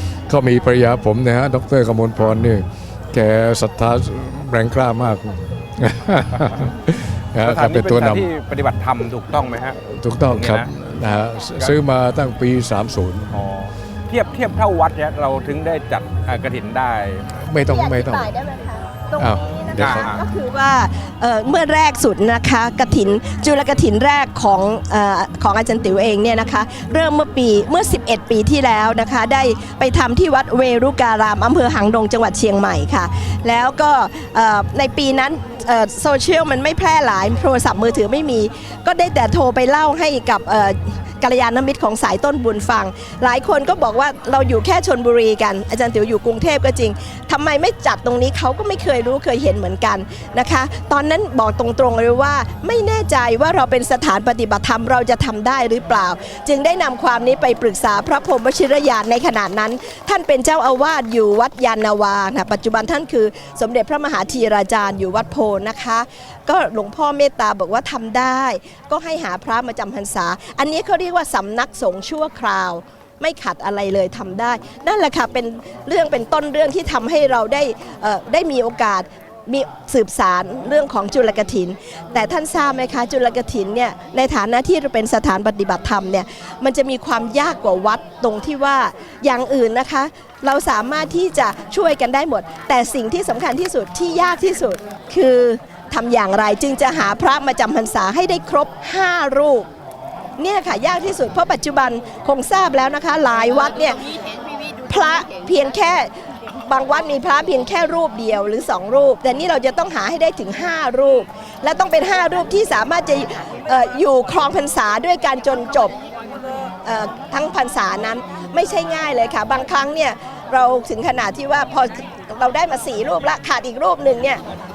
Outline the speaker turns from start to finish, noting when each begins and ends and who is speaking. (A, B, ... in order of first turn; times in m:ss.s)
0:00.3-0:08.3 A
0:07.4-0:09.8 B
0:09.8-0:13.3 A
0:10.3-0:10.7 B
0:13.3-0:17.3 B
0:17.4-0:18.3 A
0:17.6-1:39.7 C
0:19.2-0:20.2 A
0:19.8-0:20.2 B
1:40.4-1:44.0 C
1:44.9-1:56.0 C
1:56.8-2:04.4 C